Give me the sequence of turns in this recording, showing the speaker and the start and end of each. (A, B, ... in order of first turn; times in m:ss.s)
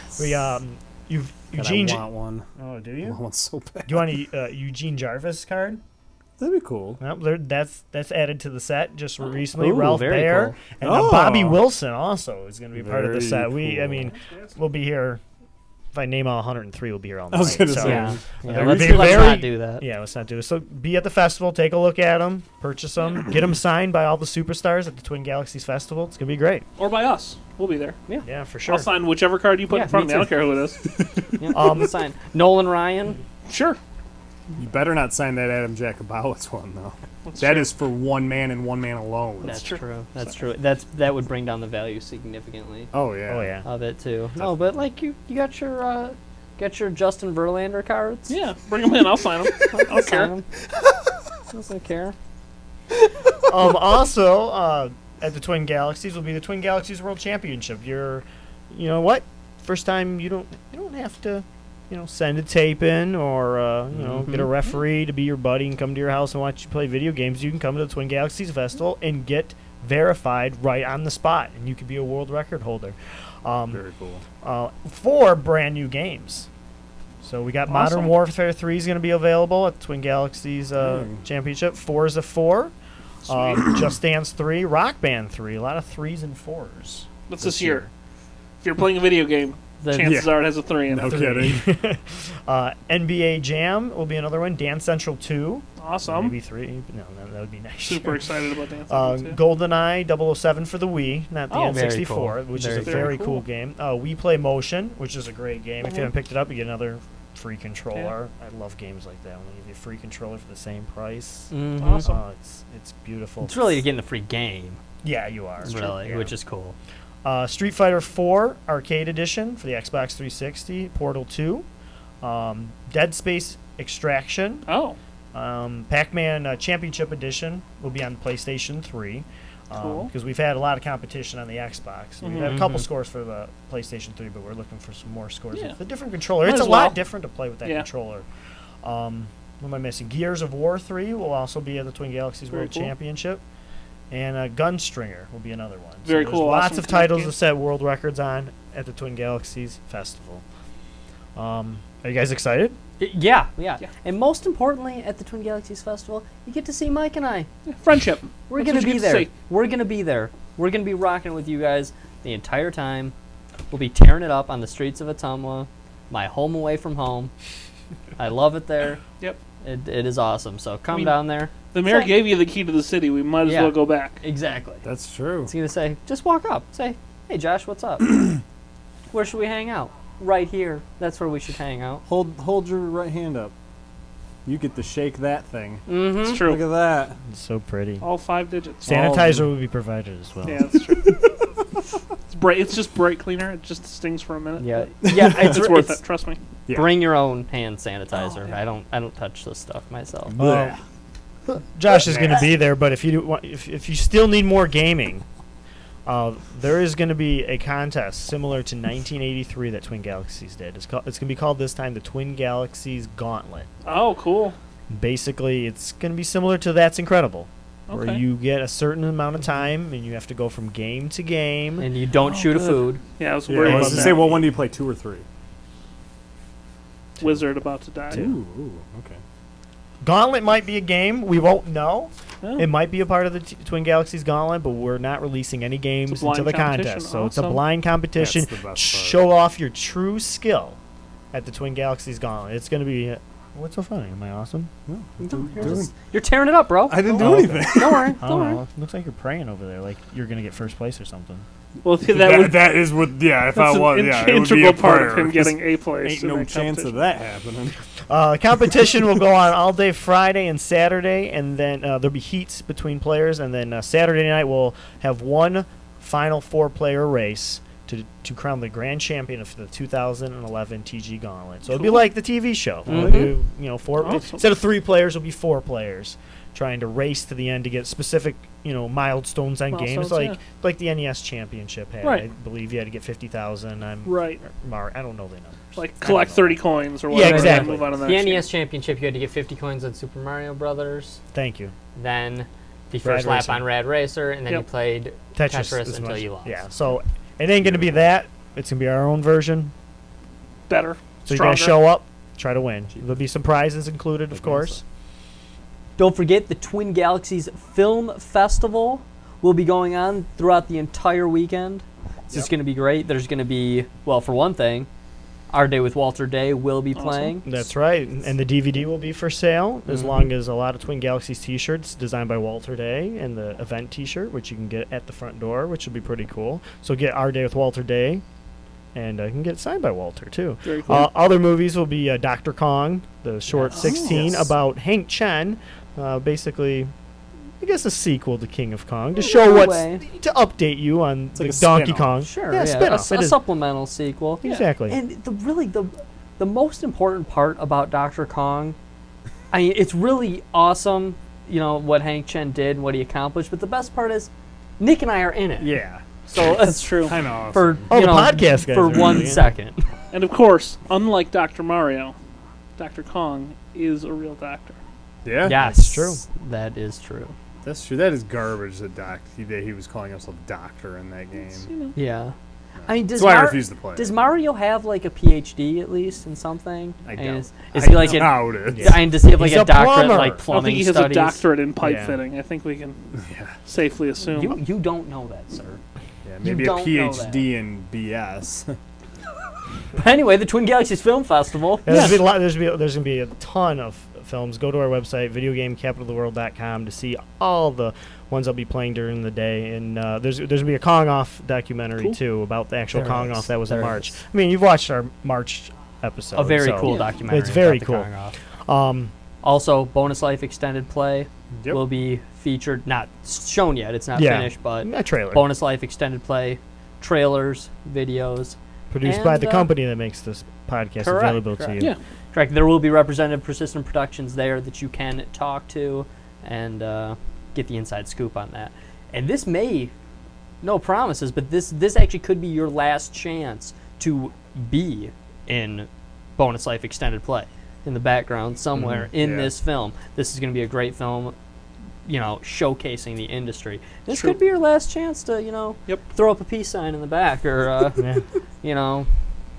0:00.1-0:00.5 A
0:00.2-0:03.2 B
0:01.5-0:04.1 A
0:03.8-0:05.8 B
0:06.4-0:07.0 A
0:07.0-0:15.2 B
0:09.6-0:10.6 C
0:10.8-0:11.6 A
0:12.7-0:14.1 A
0:14.1-0:14.6 D
0:15.9-0:26.6 B
0:17.3-0:19.3 A
0:17.8-0:19.8 C
0:26.8-0:28.0 D
0:28.2-0:28.9 B
0:28.7-0:30.8 D
0:29.7-0:30.3 C
0:30.9-0:31.3 A
0:31.4-0:33.2 C
0:31.5-0:31.9 B
0:33.5-0:33.8 D
0:34.6-0:39.6 A
0:37.2-0:37.7 D
0:39.4-0:39.8 D
0:39.4-0:42.9 C
0:42.9-0:43.5 A
0:43.3-0:43.6 B
0:43.6-0:48.3 C
0:44.4-0:44.7 A
0:48.3-0:50.3 D
0:49.6-0:49.8 A
0:49.7-0:50.5 C
0:50.6-0:51.2 A
0:51.5-0:52.2 C
0:53.5-1:13.8 B
1:03.9-1:04.4 A
1:13.7-1:14.2 A
1:14.4-1:16.5 B
1:17.2-1:22.7 B
1:17.7-1:18.2 D
1:20.8-1:21.2 A
1:23.2-1:23.7 D
1:23.2-1:27.9 B
1:27.3-1:27.9 D
1:28.6-1:31.2 D
1:29.8-1:30.3 C
1:30.0-1:31.6 A
1:31.0-1:38.2 B
1:35.8-1:36.3 D
1:37.8-1:39.4 D
1:38.9-1:53.8 B
1:41.5-1:41.8 D
1:41.5-1:43.2 C
1:42.7-1:43.4 D
1:51.5-1:52.1 C
1:51.8-1:52.2 D
1:53.4-1:54.8 C
1:55.0-1:56.4 B
1:55.6-1:56.8 C
1:57.2-2:01.6 B
2:02.2-2:04.6 B
2:04.7-2:05.0 D
2:05.3-2:18.3 B
2:09.8-2:10.1 D
2:12.2-2:12.6 D
2:12.4-2:12.8 C
2:16.4-2:17.0 D
2:18.8-2:23.4 B
2:22.5-2:22.9 D
2:24.1-2:30.4 B
2:26.0-2:27.3 D
2:31.4-2:32.8 B
2:33.0-2:37.5 C
2:37.7-2:39.3 D
2:38.5-2:43.1 C
2:43.7-2:47.3 C
2:48.2-2:49.0 C
2:49.6-2:52.1 C
2:51.7-2:54.2 D
2:53.4-2:54.8 C
2:54.8-2:55.5 A
2:55.4-2:58.4 C
2:59.1-3:02.0 C
3:02.0-3:03.5 A
3:04.4-3:07.2 A
3:05.9-3:06.4 C
3:06.2-3:06.7 D
3:07.3-3:08.0 B
3:08.0-3:08.9 D
3:08.8-3:10.6 B
3:08.8-3:09.5 A
3:10.4-3:11.0 D
3:11.0-3:11.4 A
3:12.3-3:16.4 D
3:14.6-3:16.0 C
3:15.0-3:15.6 A
3:16.7-3:17.0 A
3:16.7-3:20.4 C
3:18.1-3:18.6 D
3:20.3-3:20.8 A
3:20.4-3:20.8 B
3:21.5-3:25.2 B
3:22.1-3:22.4 D
3:26.0-3:33.7 B
3:33.8-3:34.6 D
3:34.9-3:41.9 B
3:37.9-3:38.2 D
3:41.8-3:43.0 C
3:42.3-3:44.4 D
3:43.5-3:45.2 A
3:43.6-3:44.3 B
3:47.2-3:47.5 B
3:47.2-3:48.3 D
3:48.1-3:49.2 A
3:50.0-4:00.8 B
3:52.4-3:52.7 D
3:56.1-3:57.6 D
3:58.1-3:59.3 A
4:01.3-4:04.7 B
4:04.9-4:05.9 A
4:05.2-4:08.6 C
4:06.9-4:08.2 A
4:07.1-4:11.4 B
4:11.8-4:12.9 D
4:12.1-4:17.8 A
4:13.5-4:17.0 D
4:18.1-4:48.1 B
4:31.7-4:32.0 D
4:32.9-4:33.3 C
4:33.0-4:33.3 D
4:34.0-4:34.4 D
4:39.7-4:40.4 D
4:42.0-4:42.3 D
4:44.0-4:44.4 D
4:45.7-4:48.4 D
4:47.1-4:51.2 C
4:51.3-4:51.7 B
4:52.0-4:56.6 C
4:53.0-4:53.6 B
4:55.3-4:59.7 B
4:57.6-4:58.0 A
5:00.7-5:01.9 D
5:01.2-5:04.8 B
5:02.9-5:03.2 A
5:04.3-5:04.8 A
5:06.0-5:14.9 C
5:15.5-5:17.4 C
5:16.9-5:17.5 D
5:17.4-5:28.2 B
5:19.9-5:20.2 C
5:28.9-5:36.9 B
5:30.6-5:31.1 D
5:33.5-5:34.1 C
5:33.7-5:34.5 A
5:37.6-5:43.4 B
5:39.2-5:40.0 C
5:41.4-5:42.2 A
5:42.2-5:48.8 C
5:44.4-5:45.0 B
5:49.5-5:55.7 C
5:55.6-5:56.5 A
5:56.2-5:59.8 C
5:56.6-5:57.2 D
5:57.1-5:57.9 A
5:57.9-5:59.4 B
6:00.1-6:02.2 D
6:02.8-6:04.8 D
6:05.2-6:05.6 A
6:05.4-6:07.3 C
6:05.5-6:06.2 B
6:07.6-6:11.7 A
6:11.4-6:11.9 D
6:11.9-6:12.3 C
6:12.8-6:14.1 A
6:12.8-6:21.4 C
6:17.0-6:19.0 A
6:18.4-6:20.4 B
6:20.5-6:23.1 D
6:21.8-6:22.2 B
6:23.2-6:23.6 A
6:23.6-6:24.6 D
6:24.3-6:25.8 C
6:26.2-6:28.8 A
6:26.4-6:27.4 C
6:30.0-6:31.9 C
6:31.8-6:48.1 B
6:31.9-6:32.2 D
6:42.9-6:44.1 C
6:46.3-6:48.4 C
6:46.8-6:47.1 D
6:48.6-6:49.1 B
6:49.4-6:59.7 C
6:51.6-6:51.8 A
6:54.1-6:55.4 B
6:58.9-7:01.9 B
7:01.0-7:09.9 C
7:10.6-7:21.4 C
7:18.8-7:19.1 B
7:19.2-7:19.5 A
7:22.0-7:28.0 C
7:24.1-7:24.4 D
7:28.0-7:28.2 B
7:28.6-7:29.1 C